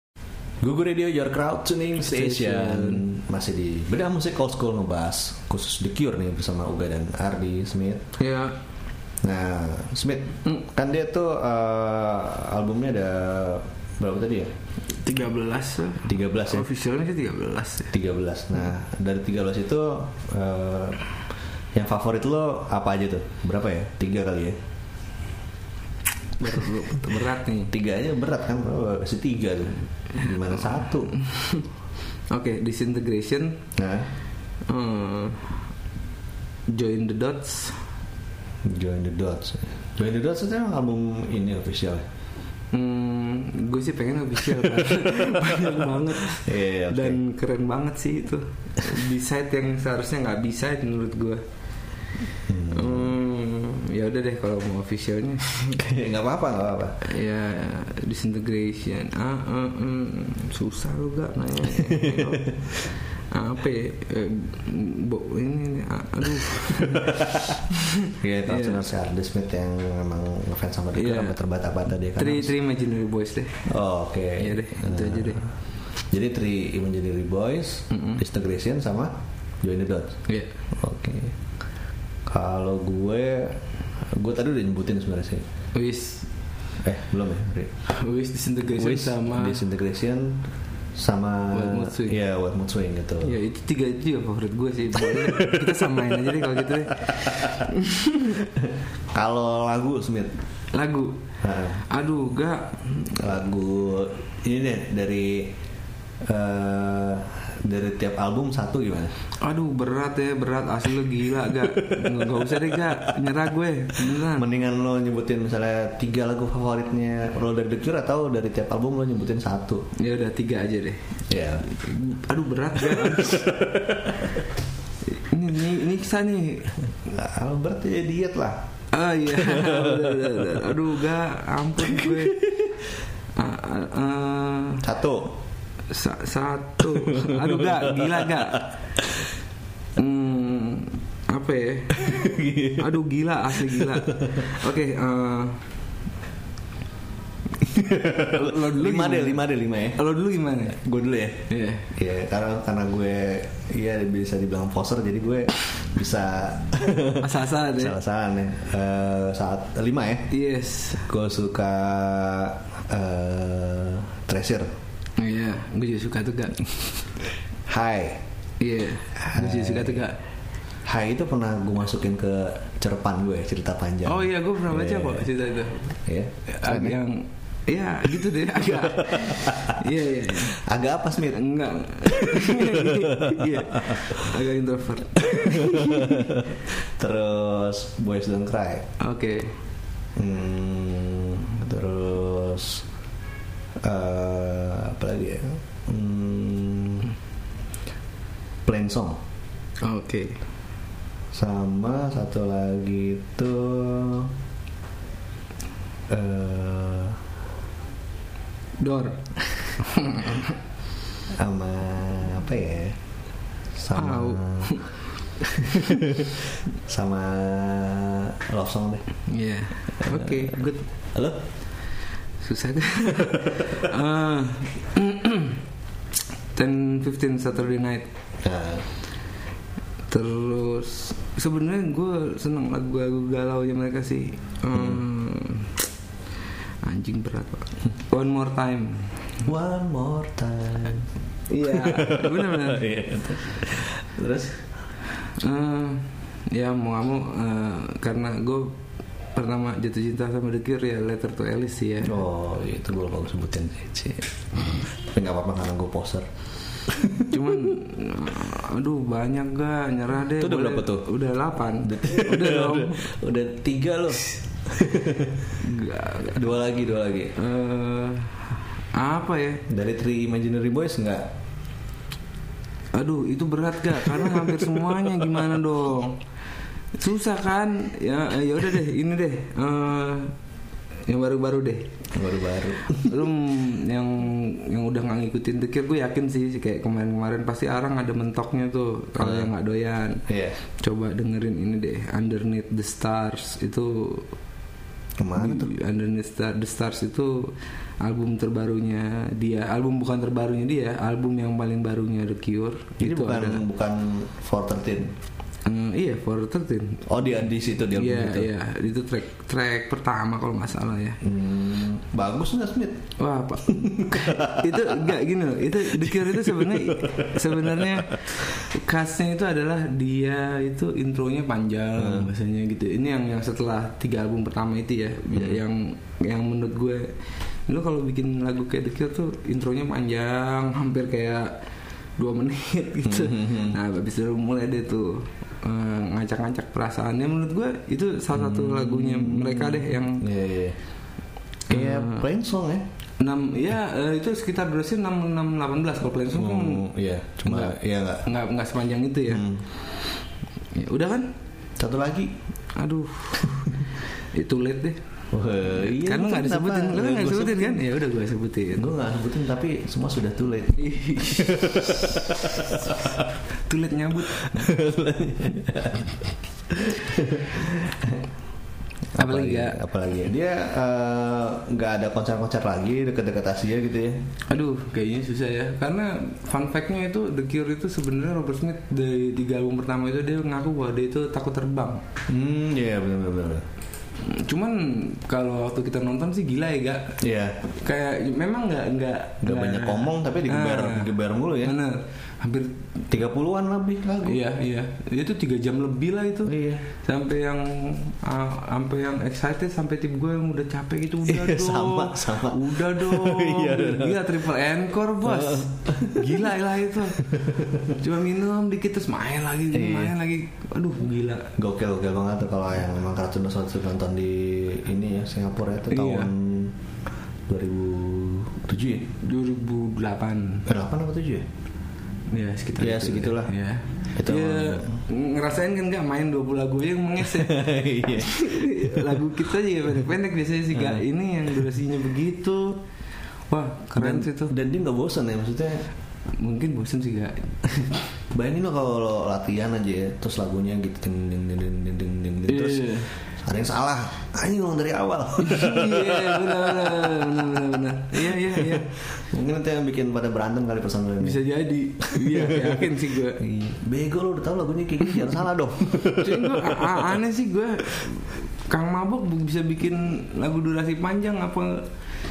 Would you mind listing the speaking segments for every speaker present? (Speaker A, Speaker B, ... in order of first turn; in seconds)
Speaker A: 0.6-8.1, 9.2-14.5, 16.0-16.7, 17.9-21.1, 21.7-24.6, 27.7-31.1, 33.8-34.1, 38.6-42.1, 44.8-45.4, 46.3-47.2, 52.5-53.1, 55.8-57.0, 61.7-62.6, 66.6-72.5, 73.7-75.5, 76.1-80.2, 80.7-81.4, 82.3-85.5, 86.8-87.7, 88.7-90.5, 91.0-93.4, 95.0-97.6, 98.5-100.4, 101.4-101.8, 103.0-105.5, 106.2-109.2, 111.6-113.3, 114.0-119.9, 121.3-121.7, 122.8-124.4, 127.0-128.6, 129.3-130.5, 131.9-132.3, 134.8-135.4, 136.9-138.6, 141.9-142.9, 143.5-144.5, 147.6-150.0, 150.7-160.3, 161.1-164.7, 167.7-168.2, 169.2-170.0, 170.8-175.3, 176.1-177.0, 179.0-181.4, 182.1-184.3, 185.2-188.9, 190.2-192.8, 193.8-197.1, 198.7-199.2, 201.3-204.3, 206.1-207.2, 211.3-213.0, 213.8-214.8, 215.4-219.1, 220.0-220.6, 221.1-221.4, 223.2-223.8, 228.4-228.9, 234.7-235.0, 239.4-241.1, 241.6-244.6, 252.0-256.3, 256.9-257.7, 260.4-261.1, 261.8-267.3, 269.7-271.3, 274.1-275.2, 282.1-283.3, 289.2-289.5, 290.3-290.6, 295.2-295.7, 303.0-305.1, 307.1-308.5, 311.2-313.1, 313.7-315.2, 315.9-318.1, 322.0-322.3, 325.3-325.6, 333.1-333.8, 338.3-340.8, 341.7-342.9, 346.3-348.2, 349.3-349.6, 351.8-352.4, 355.3-357.8, 358.8-363.2, 364.4-368.2, 369.1-374.3, 382.3-383.6, 387.2-387.6, 389.4-391.8, 393.1-394.4, 396.5-396.9, 401.2-404.2, 405.2-406.4, 407.2-407.9, 409.7-410.1, 411.6-416.8, 417.5-419.1, 420.6-421.5, 422.8-423.6, 424.2-425.0, 427.2-429.2, 430.7-431.0, 434.0-435.9, 438.3-451.5, 452.0-457.2
Speaker B: 2.0-3.0, 8.2-8.6, 14.9-17.9, 26.4-27.7, 31.2-31.6, 32.3-33.6, 34.7-35.6, 36.7-37.8, 42.7-51.4, 52.7-55.8, 57.0-62.5, 63.3-68.8, 70.9-71.3, 72.2-73.7, 74.4-75.4, 77.9-78.2, 85.7-86.3, 87.9-89.6, 91.5-92.2, 93.2-98.4, 100.7-101.2, 101.8-102.9, 109.4-114.5, 120.0-123.5, 125.1-126.7, 128.9-132.4, 133.4-134.8, 135.9-138.7, 140.0-145.6, 148.1-150.8, 151.5-151.9, 157.2-158.0, 160.3-161.1, 165.2-167.0, 168.6-170.2, 174.1-176.0, 176.5-180.6, 181.2-186.4, 189.0-189.5, 199.8-200.4, 208.8-210.6, 213.9-214.9, 215.7-216.0, 219.3-220.8, 222.4-225.6, 226.6-228.1, 230.1-235.8, 236.8-239.2, 241.5-242.9, 245.4-248.8, 249.3-252.2, 257.3-263.1, 265.6-266.4, 267.4-269.6, 272.9-276.2, 276.9-280.4, 281.1-281.9, 283.0-290.2, 290.8-294.3, 295.4-303.6, 305.6-307.3, 307.9-311.2, 313.2-327.1, 327.7-331.6, 332.2-340.3, 341.7-342.2, 343.2-346.9, 347.5-349.4, 350.7-351.3, 352.8-355.0, 355.6-358.9, 360.8-363.0, 363.7-364.7, 369.1-369.8, 374.5-382.0, 384.2-392.8, 394.2-411.5, 415.9-416.3, 419.2-420.7, 422.3-427.6, 428.1-432.8, 433.5-434.6, 436.4-437.6, 442.5-443.1, 445.4-448.9, 451.2-453.4, 456.1-461.9